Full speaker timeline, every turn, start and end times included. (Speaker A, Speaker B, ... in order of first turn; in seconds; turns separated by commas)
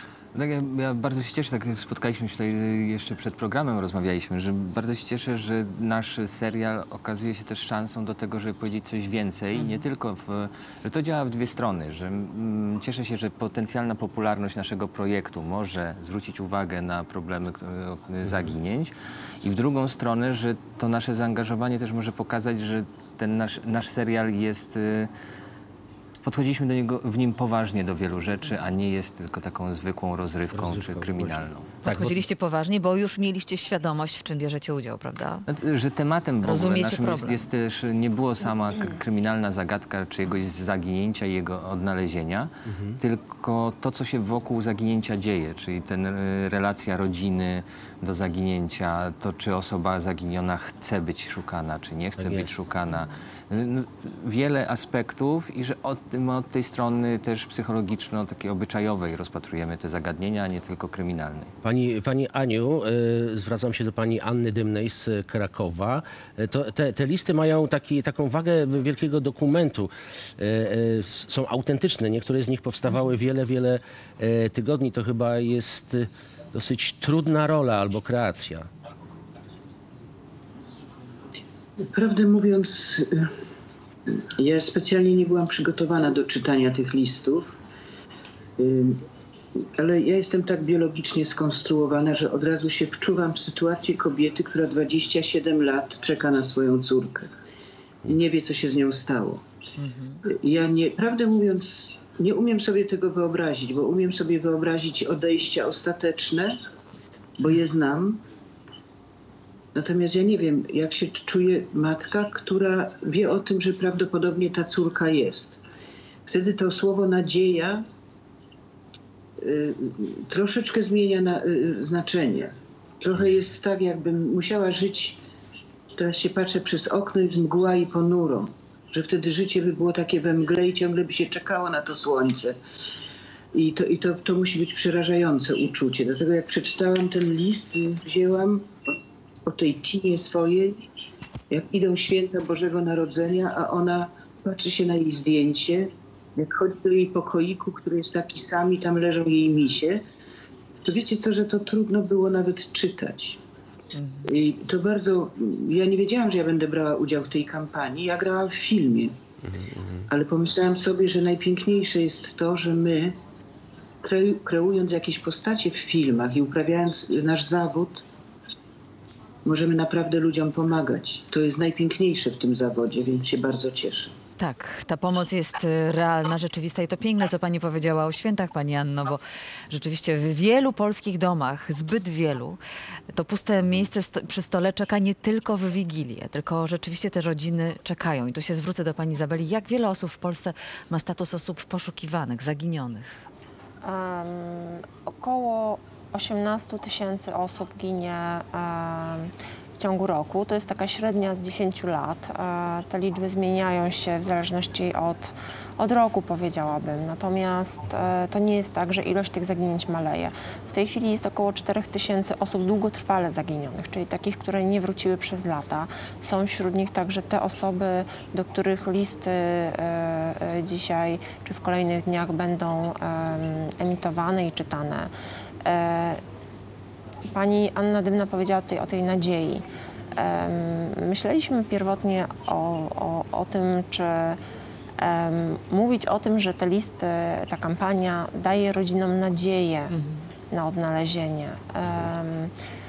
Speaker A: 0.3-25.1, Speaker A: 26.2-31.7, Speaker B: 30.5-32.2, Speaker C: 31.8-35.5, Speaker A: 35.5-61.5, Speaker C: 36.4-37.5, Speaker B: 42.7-43.0, Speaker B: 52.2-52.5, Speaker B: 61.6-78.7, Speaker D: 81.8-83.3, Speaker D: 84.1-87.6, Speaker D: 88.6-89.0, Speaker D: 89.6-97.3, Speaker D: 98.1-99.4, Speaker C: 99.8-100.2, Speaker D: 100.2-106.6, Speaker D: 107.4-108.2, Speaker D: 109.8-115.6, Speaker D: 116.3-117.8, Speaker D: 119.4-125.2, Speaker D: 126.0-132.6, Speaker D: 133.5-138.9, Speaker D: 139.5-140.8, Speaker D: 141.5-150.0, Speaker D: 150.8-153.4, Speaker C: 153.9-154.3, Speaker D: 154.2-159.1, Speaker B: 159.5-160.0, Speaker D: 160.1-163.2, Speaker D: 164.0-168.0, Speaker D: 169.4-174.2, Speaker C: 174.4-182.6, Speaker C: 183.1-193.2, Speaker E: 193.8-225.1, Speaker E: 225.7-226.2, Speaker E: 227.3-229.6, Speaker E: 230.2-234.4, Speaker E: 235.0-239.9, Speaker C: 239.9-240.3, Speaker E: 240.5-242.5